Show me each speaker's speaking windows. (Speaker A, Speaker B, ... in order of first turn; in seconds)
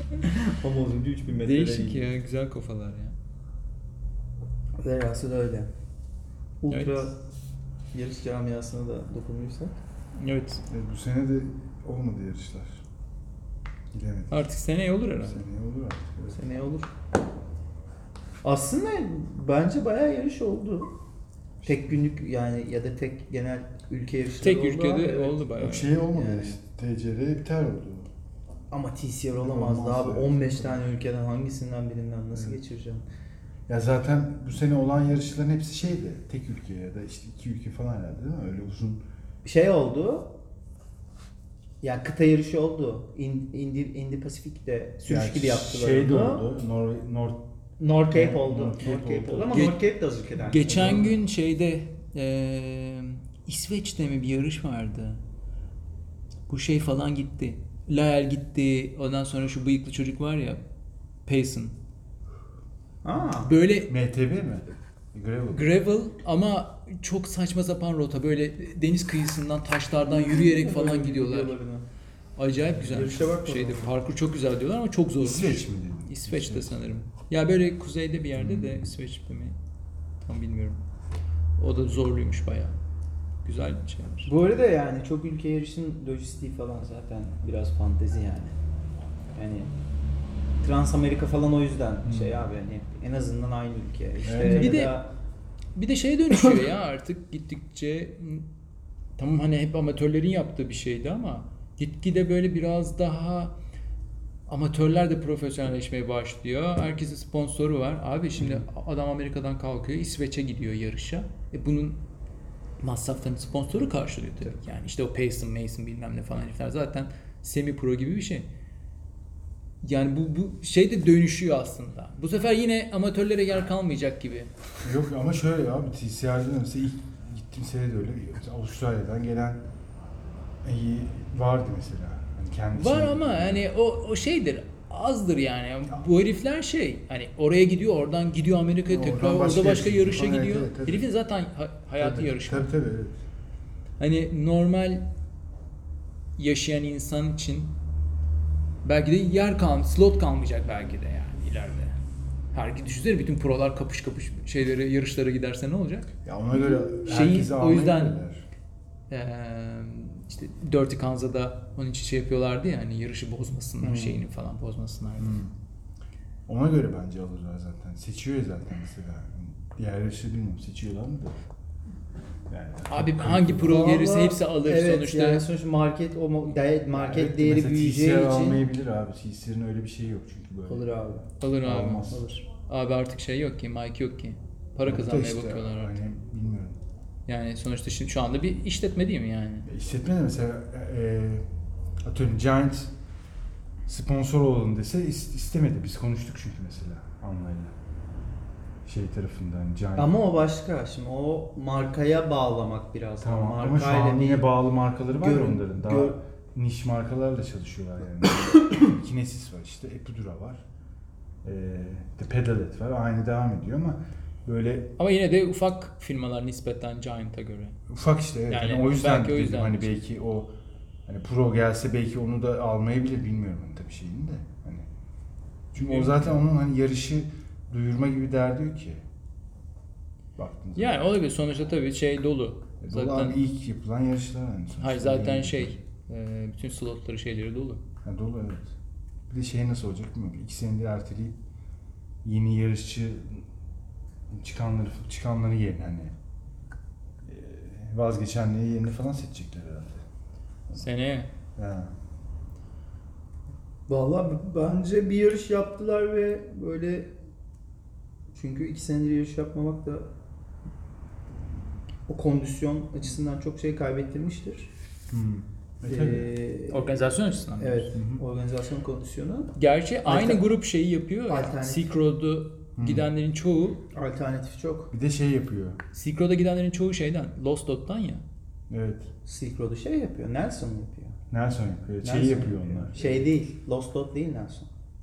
Speaker A: 0.4-2.1, 4.8-5.7, 6.6-7.2, 7.9-9.8, 16.3-16.9, 18.4-20.9, 21.6-25.6, 26.1-26.6, 28.7-33.0, 39.4-40.3, 41.8-46.5, 47.8-51.1, 63.0-63.5, 70.1-71.9, 72.8-73.9, 84.2-88.5, 89.3-89.7, 90.6-95.1, 173.6-178.6, 180.7-181.3, 182.1-182.4, 200.0-204.5, 205.2-206.2, 253.9-257.1, 258.3-260.1, 262.1-264.7, 265.8-267.0, 267.6-269.5, 270.1-270.4, 271.3-271.9, 273.9-274.9, 279.2-281.2, 282.0-284.7
Speaker B: 1.4-3.2, 6.7-7.1, 10.2-10.6, 14.3-15.4, 24.4-26.0, 49.5-49.8, 50.3-55.2, 56.5-60.6, 61.3-61.8, 63.2-63.9, 65.5-71.5, 72.4-79.6, 80.2-80.8, 81.6-82.8, 83.4-84.3, 94.4-95.0, 95.8-98.5, 99.2-103.5, 104.5-112.0, 112.8-118.5, 119.8-124.5, 132.7-142.7, 144.0-145.1, 146.4-147.7, 148.8-152.0, 152.5-156.1, 157.0-158.2, 159.1-165.4, 172.9-175.4, 181.4-186.0, 187.3-189.7, 215.0-217.8, 218.5-220.0, 225.8-226.4, 230.8-233.4, 234.8-237.8, 250.7-251.3, 266.7-267.9, 269.6-273.9, 275.9-278.2
Speaker C: 10.7-12.8, 13.9-14.4, 15.2-16.4, 21.6-21.9, 25.6-28.1, 29.4-30.9, 32.3-32.6, 33.7-39.0, 45.1-47.5, 48.1-49.8, 50.7-51.1, 63.9-65.7, 75.2-76.7, 78.4-78.9, 92.0-92.5, 94.2-94.9, 108.4-108.7, 124.8-129.6, 130.6-133.7, 138.9-141.1, 142.0-143.2, 156.2-158.4, 163.8-164.1, 165.2-165.5, 166.5-171.4, 172.5-174.0, 176.9-180.9, 181.6-182.2, 184.8-186.8, 189.7-191.4, 192.0-192.9, 193.9-197.8, 198.8-200.2, 203.2-210.6, 211.4-214.9, 217.9-220.5, 221.1-224.9, 225.7-229.0, 230.4-231.0, 232.8-235.8, 238.0-238.7, 239.3-241.4, 242.2-243.5, 244.3-246.1, 247.2-250.1, 251.6-251.9, 265.1-266.3, 267.9-268.2, 272.8-273.1, 274.9-275.8, 278.7-279.1, 281.3-283.3